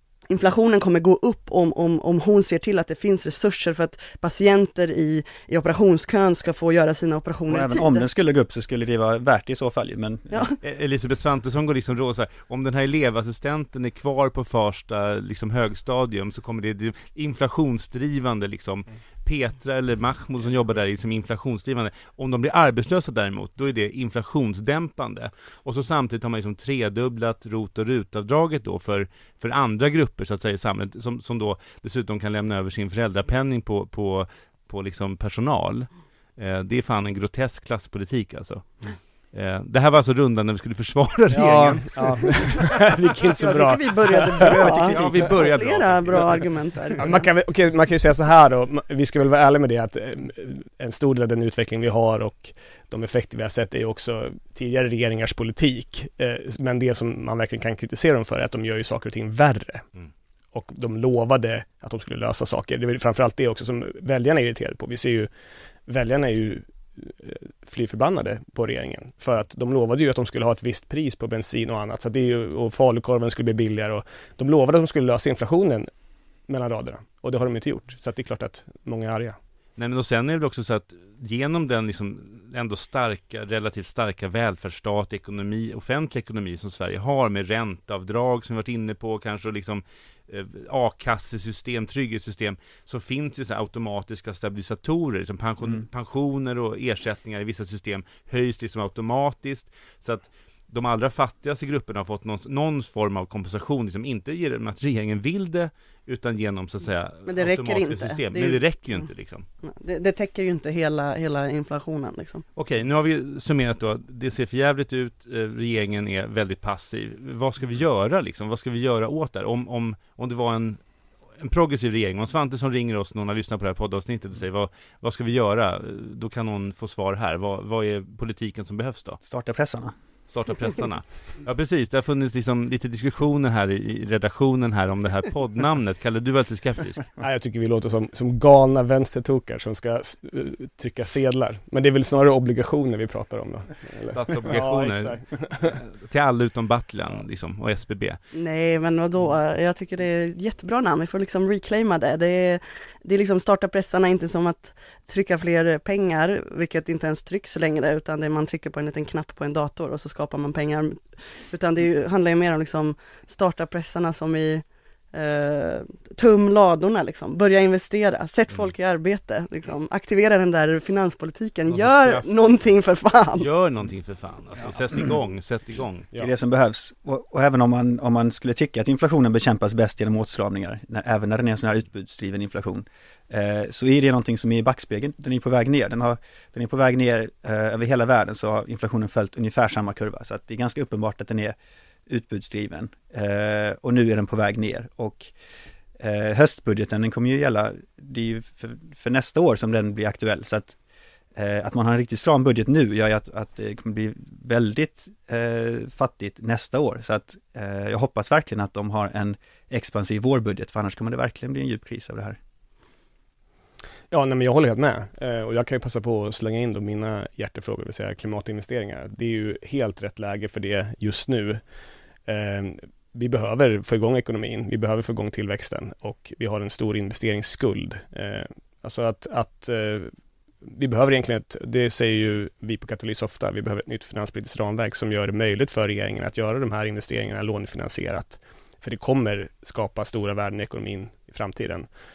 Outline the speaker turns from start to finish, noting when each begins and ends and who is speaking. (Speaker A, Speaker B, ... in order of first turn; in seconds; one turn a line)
Speaker A: 0.3-8.0
Speaker B: 7.5-10.5
Speaker A: 10.3-10.6
Speaker C: 10.6-42.6
Speaker D: 41.3-44.6
Speaker A: 43.4-47.2
Speaker C: 44.4-46.5
Speaker D: 47.0-59.8
Speaker D: 60.5-65.3
Speaker D: 65.9-75.9
Speaker D: 76.5-79.4
Speaker C: 79.8-109.5
Speaker A: 107.2-108.6
Speaker A: 109.6-112.4
Speaker C: 112.5-120.8
Speaker C: 121.4-129.2
Speaker B: 129.2-129.9
Speaker C: 130.3-137.1
Speaker D: 137.2-145.8
Speaker C: 144.1-145.2
Speaker C: 145.7-148.2
Speaker A: 148.3-173.5
Speaker C: 171.7-172.3
Speaker C: 173.3-176.1
Speaker B: 176.2-191.6
Speaker B: 192.1-195.3
Speaker B: 196.0-200.8
Speaker B: 201.3-212.4
Speaker D: 214.1-221.6
Speaker D: 222.3-230.1
Speaker D: 230.7-241.9